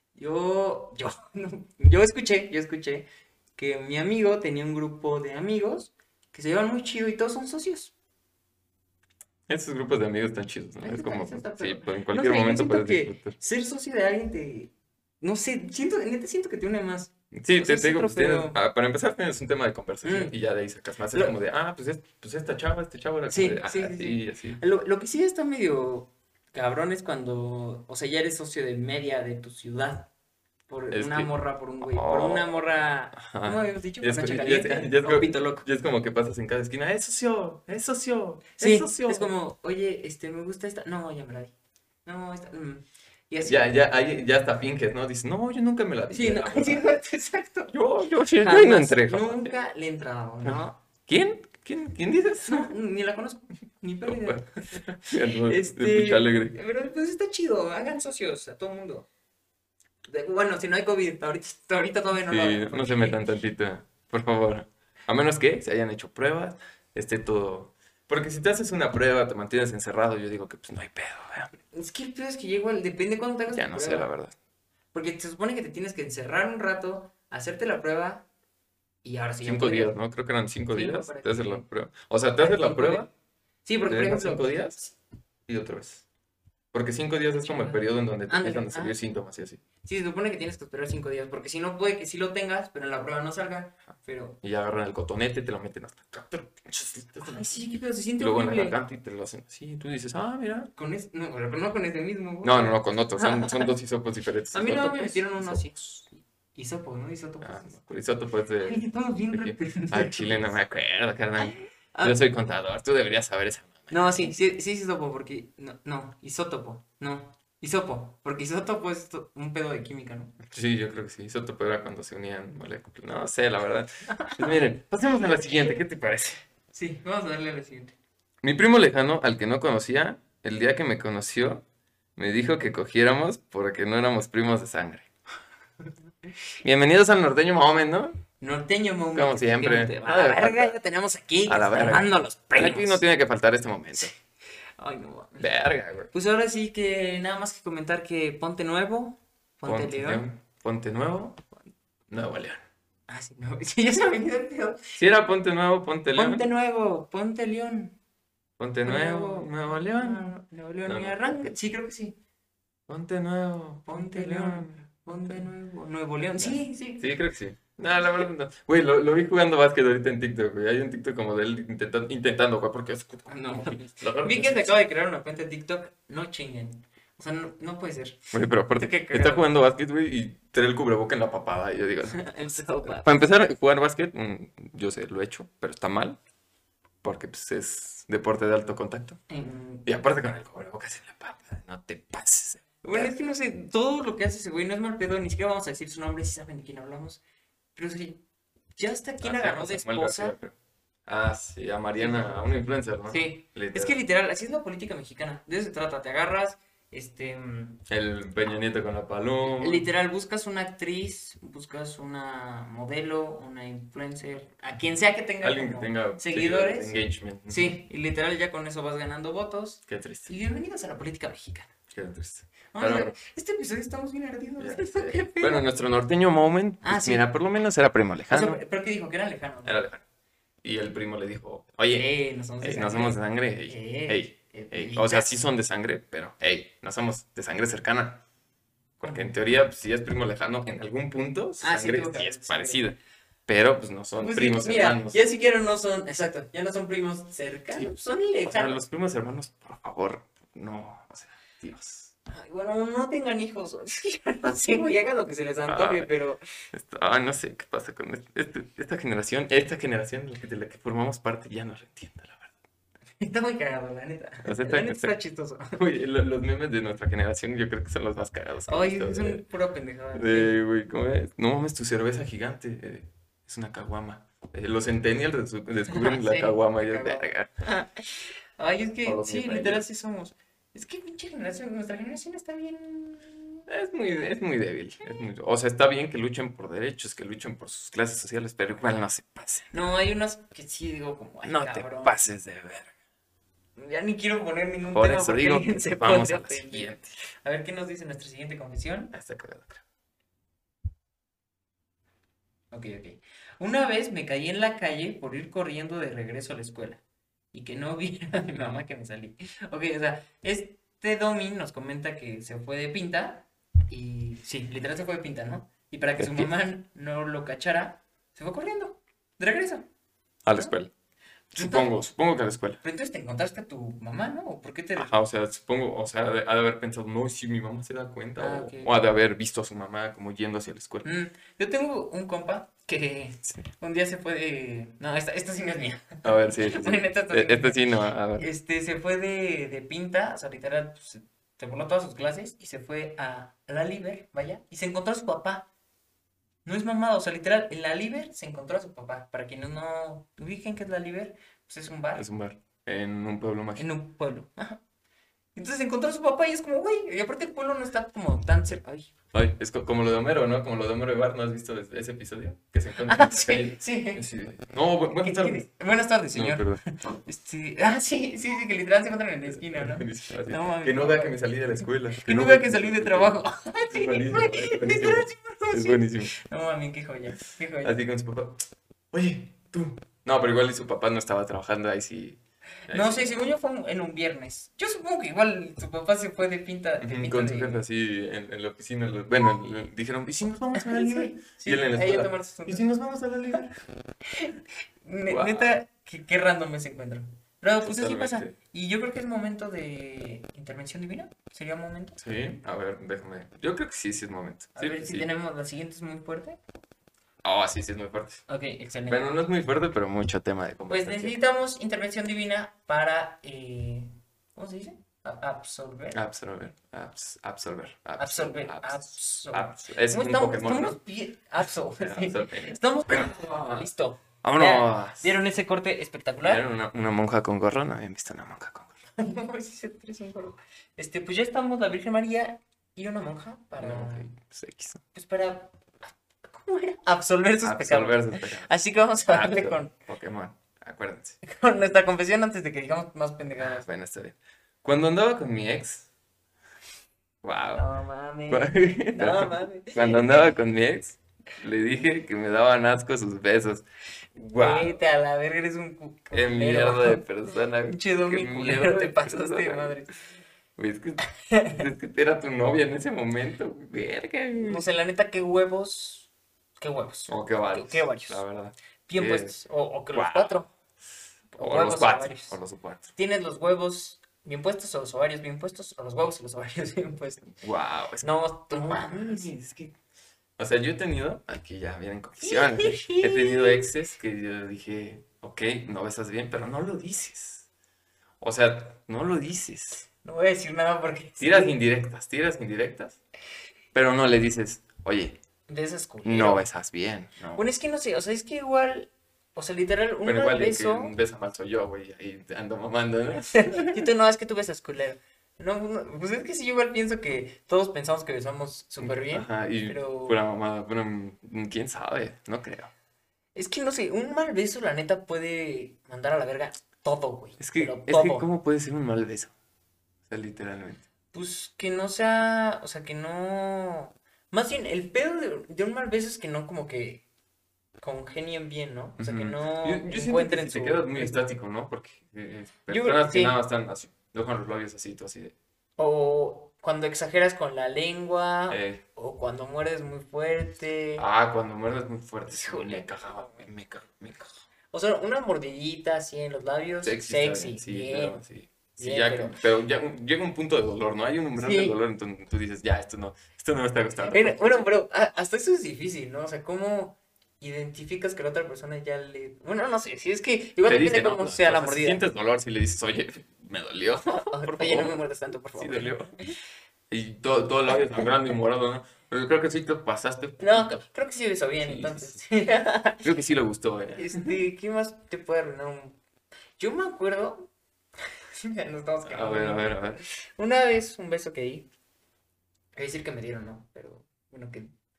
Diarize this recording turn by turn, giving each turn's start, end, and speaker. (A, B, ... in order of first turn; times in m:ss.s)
0:00.2-0:07.9 A
0:09.5-0:13.4 B
0:10.8-0:18.6 A
0:17.3-0:24.6 B
0:20.0-0:20.4 A
0:23.3-0:30.1 A
0:30.7-0:35.7 A
0:30.9-0:39.3 B
0:38.6-0:41.5 A
0:42.0-0:43.7 A
0:43.4-0:47.0 B
0:46.1-0:47.7 A
0:47.7-0:49.6 B
0:48.4-0:50.8 A
0:50.4-0:52.7 B
0:52.4-0:59.1 A
0:54.0-0:56.6 B
1:00.1-1:03.2 A
1:02.3-1:11.5 B
1:11.7-1:14.1 A
1:13.5-1:14.4 B
1:14.9-1:18.3 A
1:19.0-1:20.0 A
1:19.4-1:23.1 B
1:20.7-1:21.6 A
1:22.4-1:23.1 A
1:23.6-1:25.0 A
1:23.9-1:24.8 B
1:25.5-1:26.1 B
1:26.7-1:29.6 B
1:27.3-1:29.0 A
1:29.8-1:34.4 A
1:34.4-1:37.6 B
1:37.2-1:38.8 A
1:38.2-1:40.7 B
1:40.8-1:43.7 A
1:42.4-1:45.7 B
1:44.5-1:47.8 A
1:47.4-1:54.3 B
1:48.6-1:50.5 A
1:51.4-1:52.2 A
1:53.9-2:00.4 A
2:00.4-2:06.4 B
2:04.1-2:04.6 A
2:06.7-2:08.0 A
2:08.4-2:11.6 B
2:12.2-2:15.1 B
2:16.6-2:18.2 B
2:18.4-2:23.0 A
2:19.1-2:20.8 B
2:21.5-2:24.1 B
2:24.8-2:25.5 A
2:25.4-2:26.1 B
2:26.1-2:30.2 A
2:29.6-2:31.4 B
2:32.1-2:32.6 B
2:33.1-2:34.9 A
2:35.0-2:36.5 B
2:36.2-2:38.0 A
2:38.6-2:40.3 B
2:38.8-2:42.2 A
2:40.8-2:41.5 B
2:42.9-2:45.5 B
2:43.9-2:47.1 A
2:46.4-2:54.7 B
2:53.3-2:59.5 A
2:58.3-3:06.2 B
3:02.1-3:03.2 A
3:07.0-3:09.2 B
3:09.3-3:09.9 A
3:09.8-3:13.1 B
3:12.8-3:17.2 A
3:17.8-3:18.2 A
3:18.8-3:20.4 A
3:19.2-3:20.6 B
3:21.1-3:24.0 B
3:22.0-3:27.8 A
3:27.9-3:29.9 B
3:29.4-3:41.7 A
3:35.4-3:37.8 B
3:39.9-3:40.3 B
3:41.9-3:43.2 B
3:42.7-3:45.7 A
3:44.6-3:48.6 B
3:46.8-3:47.3 A
3:48.3-3:49.8 A
3:49.6-3:50.0 B
3:50.6-3:52.1 B
3:51.9-3:55.3 A
3:52.6-3:58.2 B
3:59.0-4:05.2 B
3:59.0-3:59.4 A
4:01.6-4:02.9 A
4:04.2-4:08.8 A
4:08.4-4:12.1 B
4:12.3-4:16.4 A
4:15.7-4:16.1 B
4:16.7-4:22.5 B
4:23.2-4:25.8 A
4:24.4-4:25.1 B
4:25.7-4:29.4 B
4:28.7-4:30.6 A
4:30.1-4:37.5 B
4:35.9-4:43.6 A
4:39.0-4:39.8 B
4:43.7-4:49.7 B
4:49.7-4:52.2 A
4:51.4-4:52.9 B
4:53.8-4:59.1 A
4:54.9-4:57.1 B
4:59.1-4:59.8 B
5:02.7-5:07.0 A
5:07.5-5:19.9 A
5:16.2-5:16.5 B
5:20.4-5:20.9 B
5:21.5-5:22.8 B
5:21.6-5:22.0 A
5:22.8-5:25.2 A
5:25.0-5:31.1 B
5:28.4-5:28.9 A
5:31.0-5:45.7 A
5:36.2-5:38.5 B
5:46.6-5:52.3 A
5:52.2-5:53.9 B
5:53.8-5:54.8 A
5:55.6-5:59.1 A
5:59.3-6:05.7 B
6:03.0-6:04.2 A
6:05.2-6:11.4 A
6:06.3-6:06.8 B
6:09.5-6:16.3 B
6:12.2-6:18.0 A
6:17.8-6:23.4 B
6:22.9-6:27.8 A
6:27.0-6:33.8 B
6:30.7-6:32.9 A
6:34.3-6:42.2 A
6:35.3-6:35.7 B
6:37.8-6:38.5 B
6:42.2-6:45.3 B
6:44.8-6:46.6 A
6:47.4-6:48.5 B
6:48.5-6:49.4 A
6:49.1-6:51.4 B
6:50.9-6:56.2 A
6:56.1-7:01.0 B
6:58.2-7:06.6 A
7:02.0-7:03.9 B
7:04.4-7:05.4 B
7:06.4-7:08.9 B
7:09.2-7:14.3 A
7:13.8-7:15.0 B
7:15.1-7:19.9 A
7:17.6-7:18.7 B
7:19.3-7:21.4 B
7:21.4-7:23.9 A
7:23.6-7:26.1 B
7:27.4-7:27.9 B
7:27.8-7:30.6 A
7:28.5-7:35.0 B
7:34.6-7:37.2 A
7:36.3-7:40.0 B
7:37.8-7:40.2 A
7:40.8-7:44.9 B
7:41.3-7:41.8 A
7:44.6-7:48.4 A
7:47.3-7:49.5 B
7:49.1-7:50.7 A
7:50.1-7:50.6 B
7:51.5-7:52.6 A
7:51.6-7:53.1 B
7:53.2-7:57.5 A
7:57.6-8:00.0 B
7:58.2-7:59.5 A
8:00.6-8:07.7 B
8:02.4-8:03.9 A
8:08.4-8:10.1 B
8:10.2-8:11.8 A
8:11.4-8:13.2 B
8:13.9-8:15.4 B
8:15.7-8:16.7 A
8:16.2-8:17.6 B
8:17.6-8:21.1 A
8:20.2-8:24.1 B
8:23.5-8:30.4 A
8:29.0-8:32.9 B
8:33.6-8:38.5 A
8:37.6-8:39.5 B
8:40.3-8:41.0 B
8:41.3-8:47.2 A
8:48.0-8:51.4 A
8:49.2-8:55.5 B
8:52.9-8:53.6 A
8:56.0-9:01.2 A
8:58.7-8:59.0 B
9:01.2-9:04.6 B
9:02.5-9:03.7 A
9:04.9-9:08.4 A
9:07.0-9:14.8 B
9:09.0-9:09.6 A
9:11.6-9:12.0 A
9:14.2-9:22.2 A
9:20.8-9:25.2 B
9:24.3-9:26.2 A
9:25.8-9:26.4 B
9:27.1-9:31.0 B
9:30.6-9:33.3 A
9:31.8-9:32.4 B
9:33.2-9:34.6 B
9:34.2-9:36.2 A
9:36.8-9:37.7 A
9:38.6-9:41.9 A
9:39.2-9:40.2 B
9:43.0-9:44.9 A